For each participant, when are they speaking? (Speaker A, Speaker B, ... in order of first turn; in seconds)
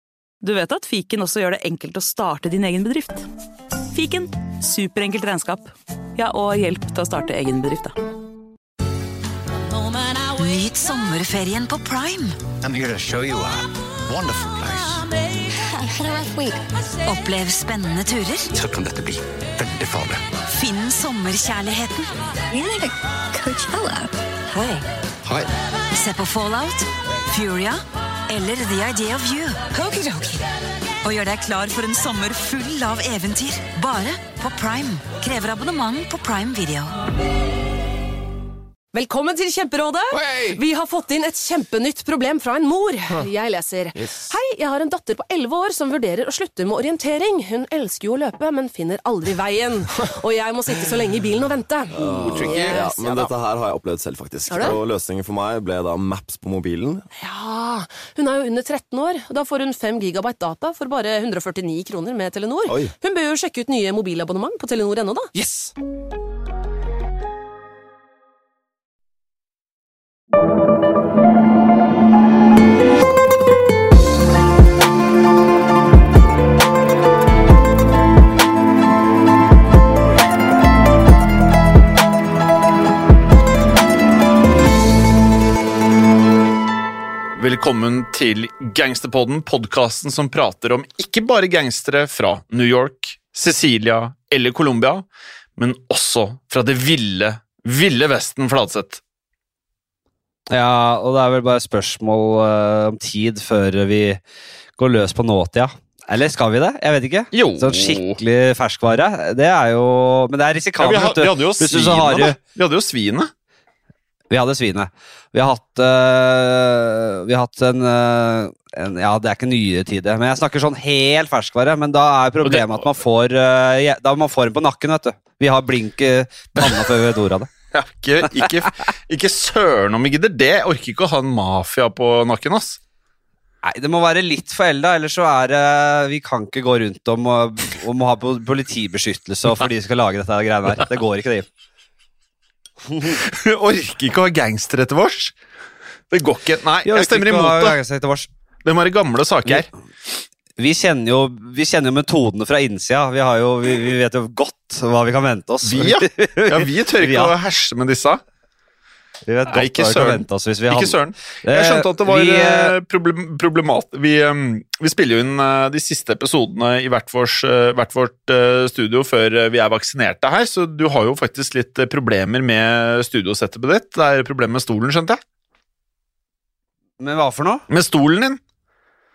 Speaker A: 0.4-3.3, 3.9-7.9
Speaker B: 10.3-12.4, 17.0-18.5, 20.5-22.2, 24.5-24.8, 25.9-30.4, 31.0-36.9
Speaker C: 12.6-15.1, 18.5-20.2, 52.3-52.9
Speaker D: 15.8-16.6, 22.5-24.1
Speaker E: 38.9-53.3, 54.5-54.8, 57.2-65.3
Speaker F: 40.2-40.6, 51.9-57.0, 62.7-62.9
Speaker G: 87.4-95.0, 95.6-99.0, 107.3-108.2, 110.8-113.3, 122.4-122.8, 127.7-132.8, 143.1-145.3, 146.1-147.8, 148.6-150.2, 155.6-158.2, 159.5-175.2, 177.7-178.4
Speaker H: 100.5-104.2, 104.8-112.4, 114.3-127.5, 128.2-128.5, 133.6-141.5, 142.9-143.2, 146.8-148.3, 150.6-157.3, 159.3-162.7, 177.0-177.6